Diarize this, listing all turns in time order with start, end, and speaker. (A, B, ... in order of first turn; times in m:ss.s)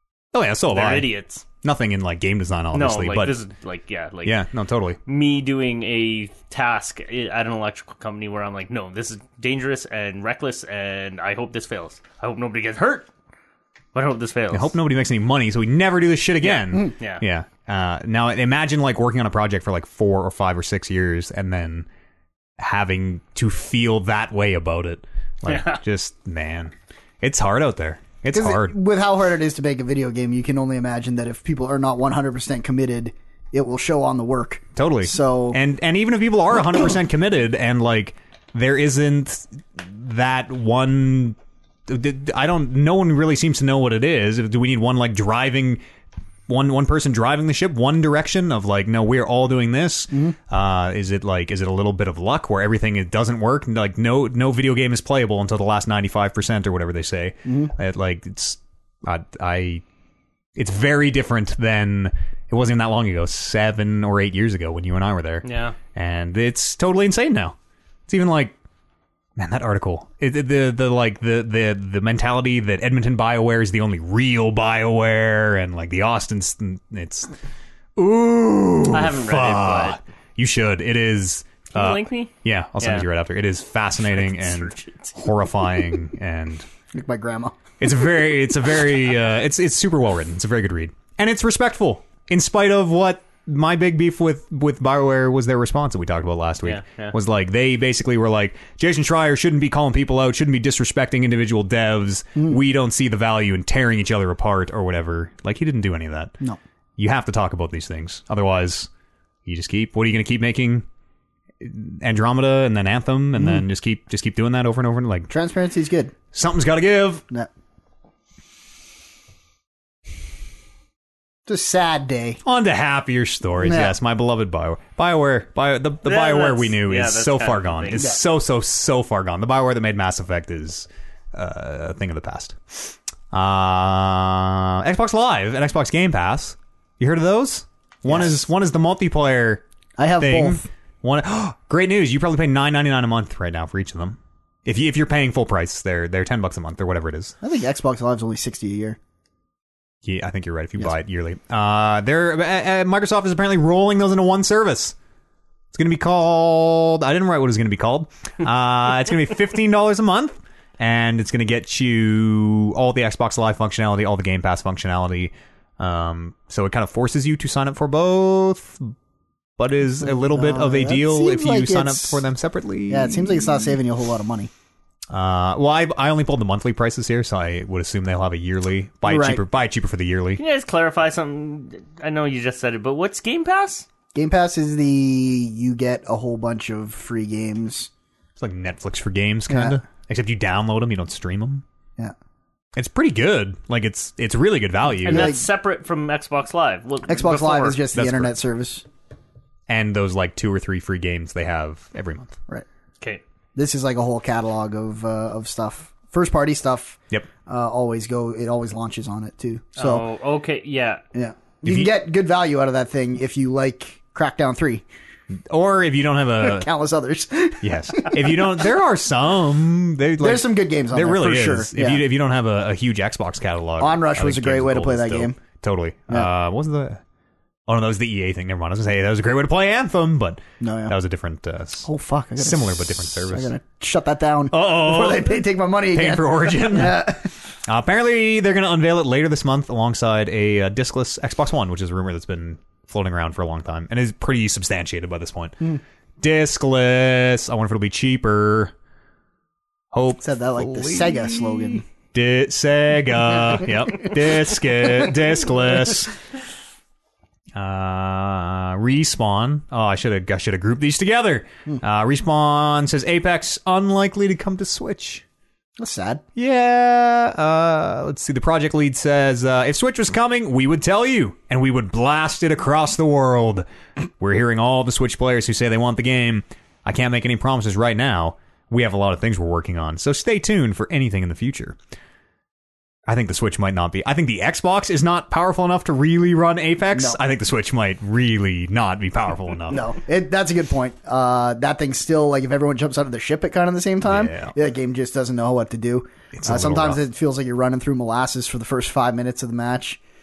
0:00.3-0:01.1 A
0:00.7-0:01.4 B
0:01.6-0:03.4 A
0:02.7-0:04.4 B
0:04.2-0:05.0 A
0:05.0-0:13.1 B
0:13.9-0:14.7 B
0:14.5-0:21.9 A
0:16.4-0:17.2 B
0:22.6-0:28.7 A
0:25.4-0:25.8 B
0:28.3-0:35.6 C
0:34.8-0:45.8 A
0:46.5-0:59.8 A
0:57.4-0:57.7 C
1:00.6-1:07.6 A
1:05.4-1:05.8 B
1:08.1-1:08.5 A
1:09.4-1:17.3 A
1:18.0-1:26.7 A
1:18.9-1:20.0 B
1:21.7-1:23.0 B
1:24.0-1:25.2 B
1:26.9-1:27.6 C
1:27.8-1:46.3 A
1:36.6-1:37.1 B
1:47.0-1:48.9 A
1:49.4-1:50.8 A
1:51.6-1:55.3 A
1:55.3-1:56.1 C
1:56.3-1:57.2 A
2:01.4-2:02.4 C
2:02.4-2:19.6 A
2:03.6-2:03.9 C
2:06.0-2:08.1 B
2:18.1-2:18.4 C
2:20.0-2:20.7 C
2:20.2-2:27.3 A
2:27.4-2:29.0 C
2:30.0-2:35.0 A
2:35.7-2:48.9 A
2:49.6-2:53.8 A
2:50.0-2:52.2 C
2:52.9-2:54.5 C
2:55.1-3:00.4 A
2:59.0-2:59.4 C
3:00.4-3:03.9 B
3:04.1-3:07.9 C
3:08.4-3:11.6 A
3:09.5-3:09.8 C
3:12.8-3:15.3 A
3:15.0-3:17.8 B
3:15.0-3:15.4 C
3:17.1-3:18.8 C
3:17.9-3:18.3 A
3:19.7-3:22.4 A
3:23.6-3:30.0 C
3:29.8-3:31.0 B
3:31.1-3:34.8 C
3:31.6-3:31.9 A
3:35.3-3:36.7 A
3:36.4-3:38.5 C
3:37.6-3:47.0 A
3:40.2-3:42.0 C
3:43.8-3:45.4 C
3:47.7-3:53.5 A
3:50.6-3:50.9 C
3:51.8-3:57.3 C
3:54.5-3:57.0 A
3:57.7-4:05.6 A
4:06.2-4:08.7 A
4:09.9-4:16.1 A
4:10.2-4:11.8 C
4:17.5-4:25.2 A
4:25.8-4:26.2 C
4:26.4-4:33.6 A
4:34.2-4:41.8 A
4:43.1-4:49.8 A
4:49.7-5:00.0 C
4:54.0-4:54.5 A
4:56.3-4:57.0 A